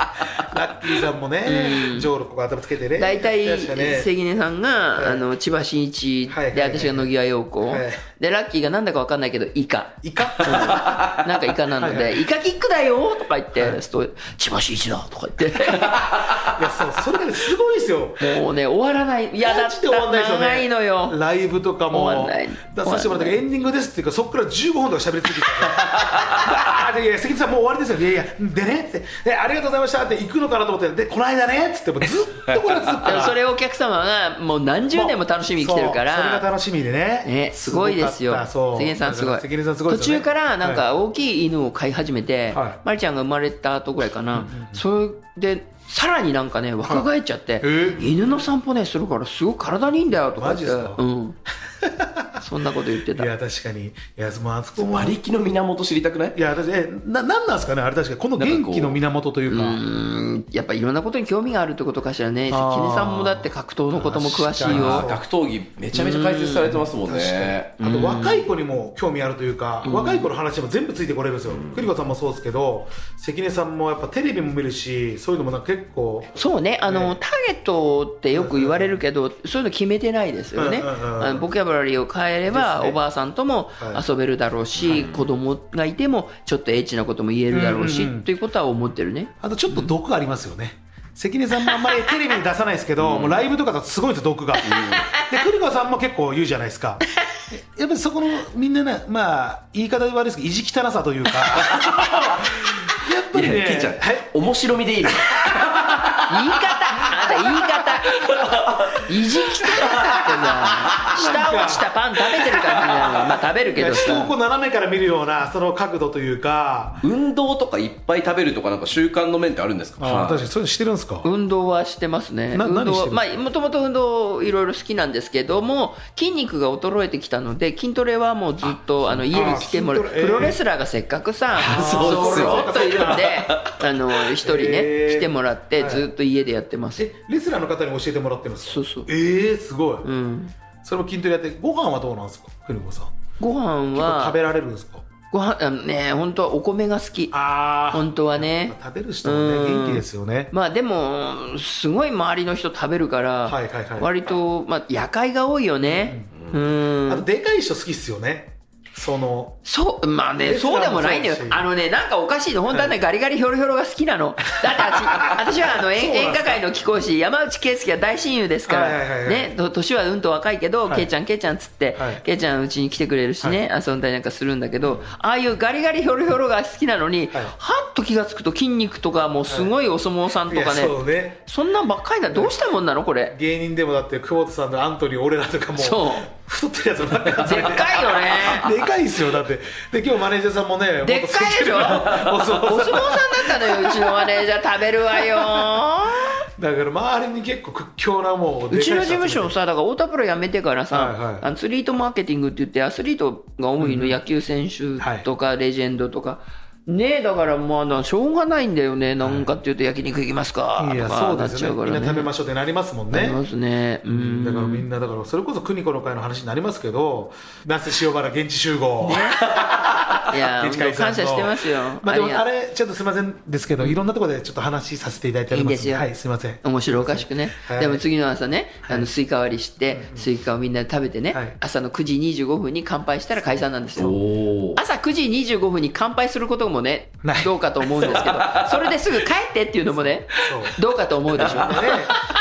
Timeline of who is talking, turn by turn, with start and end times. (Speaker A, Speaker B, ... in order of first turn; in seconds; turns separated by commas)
Speaker A: 0.3-4.1, Speaker B: 1.4-2.1, Speaker B: 3.0-16.1, Speaker A: 5.0-5.2, Speaker A: 6.3-7.1, Speaker A: 7.6-8.0, Speaker A: 10.0-11.1, Speaker C: 10.8-11.2, Speaker A: 11.7-12.2, Speaker A: 16.4-18.4, Speaker B: 18.2-21.2, Speaker A: 19.4-33.4, Speaker B: 21.9-23.4, Speaker C: 25.9-26.4, Speaker C: 32.5-33.0, Speaker B: 33.0-36.5, Speaker A: 34.9-40.9, Speaker B: 37.2-51.4, Speaker A: 42.5-42.8, Speaker A: 44.3-44.8, Speaker A: 47.6-48.1, Speaker A: 50.3-51.0, Speaker A: 51.8-52.4, Speaker B: 52.4-53.3, Speaker A: 53.1-55.2, Speaker C: 54.8-56.4, Speaker A: 56.3-59.8, Speaker C: 58.4-59.0, Speaker B: 59.5-65.0, Speaker A: 62.5-65.2, Speaker C: 64.7-67.7, Speaker B: 65.9-66.8, Speaker A: 67.1-77.2, Speaker B: 67.8-68.5, Speaker B: 69.8-70.3, Speaker C: 71.5-71.8, Speaker B: 76.4-89.9, Speaker A: 78.3-79.0, Speaker A: 80.5-81.5, Speaker A: 82.5-83.0, Speaker A: 83.8-84.0, Speaker C: 84.8-85.3, Speaker A: 87.5-88.3, Speaker A: 89.4-104.3, Speaker C: 93.0-93.5, Speaker C: 94.7-95.1, Speaker C: 101.5-109.0, Speaker A: 105.0-106.0, Speaker B: 106.3-114.3, Speaker A: 109.7-110.5, Speaker C: 109.8-110.1, Speaker C: 110.7-111.2, Speaker A: 111.0-111.9, Speaker A: 113.8-117.0, Speaker C: 117.0-120.4, Speaker A: 120.0-121.3, Speaker B: 121.2-137.1, Speaker A: 122.5-123.3, Speaker A: 129.0-130.6, Speaker C: 131.6-133.8, Speaker A: 131.6-133.4, Speaker A: 134.4-136.1, Speaker A: 137.0-140.1, Speaker B: 138.7-139.1, Speaker B: 140.0-140.5, Speaker A: 140.8-143.2, Speaker B: 143.4-144.4, Speaker A: 143.9-145.1, Speaker B: 145.3-147.3, Speaker A: 147.3-150.5, Speaker B: 147.9-157.2, Speaker A: 153.4-154.1, Speaker A: 155.9-156.3, Speaker A: 157.1-159.6, Speaker B: 159.7-183.3, Speaker A: 160.4-161.7, Speaker A: 162.7-163.0, Speaker A: 164.7-166.6, Speaker A: 168.7-169.5, Speaker A: 172.0-172.2, Speaker A: 180.5-181.4, Speaker A: 182.3-182.6, Speaker A: 183.3-194.5, Speaker B: 185.8-186.3, Speaker B: 187.4-188.8, Speaker B: 191.0-196.4, Speaker A: 195.1-195.8, Speaker A: 196.6-199.6, Speaker B: 198.7-212.3, Speaker A: 200.9-201.5, Speaker A: 203.8-204.2, Speaker A: 205.0-205.3, Speaker A: 209.2-209.5, Speaker A: 210.8-213.4, Speaker B: 213.1-214.9, Speaker A: 214.1-228.0, Speaker B: 219.0-219.6, Speaker B: 220.2-222.4, Speaker B: 225.5-226.1, Speaker B: 226.6-234.2, Speaker A: 229.9-230.3, Speaker C: 234.0-234.8, Speaker B: 234.8-242.0, Speaker A: 237.2-238.4, Speaker C: 238.1-239.0, Speaker A: 240.3-242.2